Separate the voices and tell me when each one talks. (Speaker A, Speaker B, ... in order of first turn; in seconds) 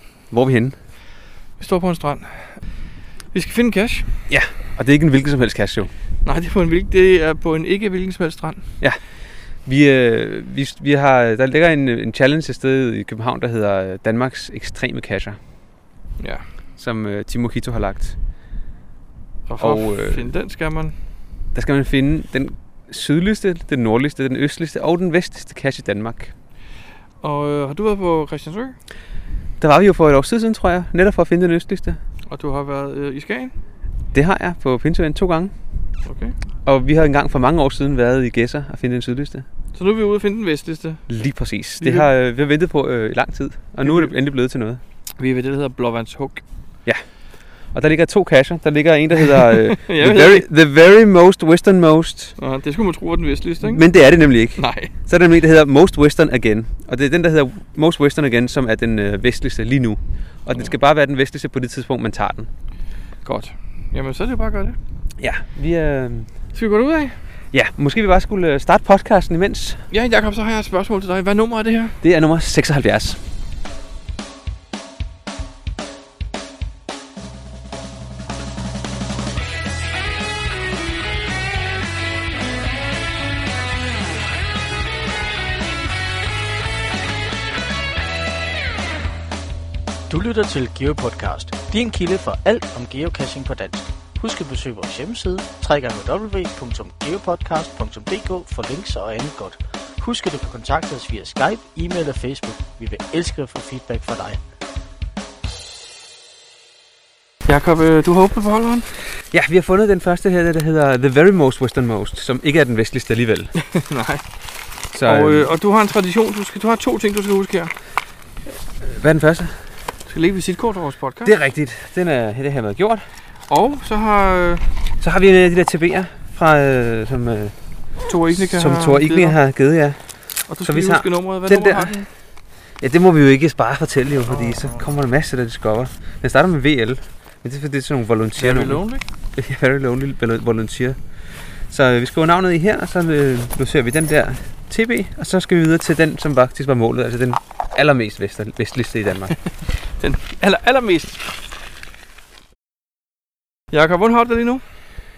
Speaker A: 0.3-0.8, 4.3-5.9, 9.6-15.4, 16.8-18.1, 19.6-20.3, 21.5-26.3, 29.6-32.0, 34.1-35.5, 36.6-39.5, 41.1-44.8, 47.7-52.4, 53.6-62.5, 65.2-66.3, 67.5-69.8, 72.0-73.2, 109.3-113.6, 114.9-115.5, 118.8-119.5, 121.2-123.0, 125.0-127.5, 128.4-132.0, 132.8-138.8, 139.3-141.0, 141.7-149.3
Speaker B: 1.6-2.6, 3.3-4.1, 6.2-8.6, 16.2-16.4, 19.5-20.9, 27.2-28.8, 32.3-33.5, 36.0-36.3, 39.7-41.1, 41.8-42.1, 43.8-44.1, 45.2-46.4, 49.9-50.4, 52.4-53.8, 54.5-54.9, 63.2-64.8, 66.5-67.2, 69.9-72.0, 107.5-108.9, 113.7-114.3, 115.0-117.7, 120.1-121.3, 123.5-124.6, 128.1-129.3, 130.5-132.1, 134.3-134.6, 138.4-139.0, 150.0-151.3, 153.7-154.6
Speaker C: 90.1-104.4